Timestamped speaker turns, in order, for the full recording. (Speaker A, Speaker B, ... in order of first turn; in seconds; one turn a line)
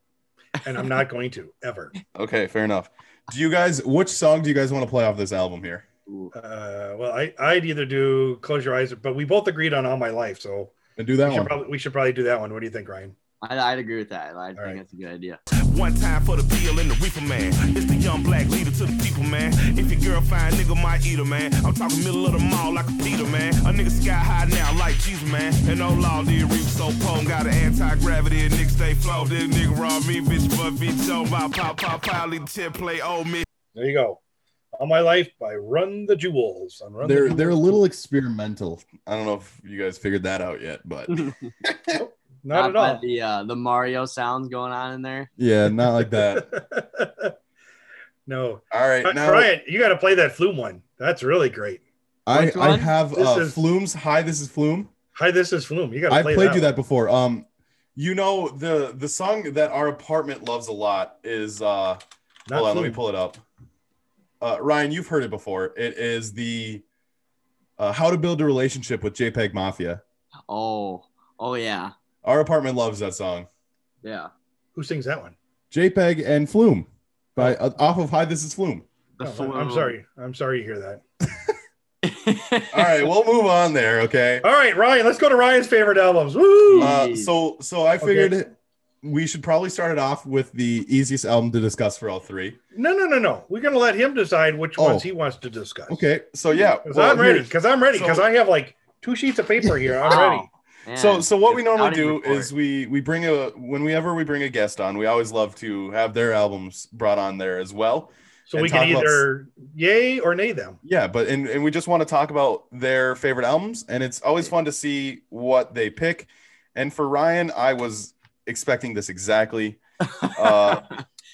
Speaker A: 0.6-1.9
Speaker B: 2.1-5.8
Speaker C: 6.1-6.3
Speaker A: 6.3-13.1
Speaker B: 11.0-11.5
Speaker C: 13.4-15.4
Speaker A: 14.6-14.8
Speaker D: 15.7-33.4
Speaker A: 33.7-34.2
Speaker A: 34.8-37.6
Speaker B: 37.0-41.9
Speaker C: 41.1-41.5
Speaker A: 41.9-43.0
Speaker C: 42.5-45.3
Speaker B: 45.4-46.5
Speaker A: 45.7-47.3
Speaker A: 48.2-51.8
Speaker B: 48.7-49.5
Speaker B: 52.2-54.9
Speaker C: 52.3-52.9
Speaker A: 53.1-53.5
Speaker A: 55.1-56.7
Speaker B: 56.1-63.4
Speaker A: 62.5-63.0
Speaker B: 64.4-66.8
Speaker B: 67.8-70.0
Speaker C: 70.5-71.9
Speaker B: 72.2-73.5
Speaker C: 74.0-74.3
Speaker A: 74.7-75.3
Speaker B: 75.7-78.8
Speaker C: 79.2-79.9
Speaker A: 79.2-81.0
Speaker C: 82.0-82.9
Speaker B: 82.7-84.5
Speaker A: 84.4-86.9
Speaker C: 86.7-87.3
Speaker B: 86.8-88.5
Speaker A: 88.0-88.3
Speaker B: 89.0-92.6
Speaker A: 92.7-96.0
Speaker B: 94.8-95.0
Speaker B: 95.9-98.2
Speaker A: 96.8-100.5
Speaker C: 100.0-102.5
Speaker B: 100.9-109.2
Speaker A: 108.5-110.8
Speaker B: 110.8-120.8
Speaker C: 120.2-120.8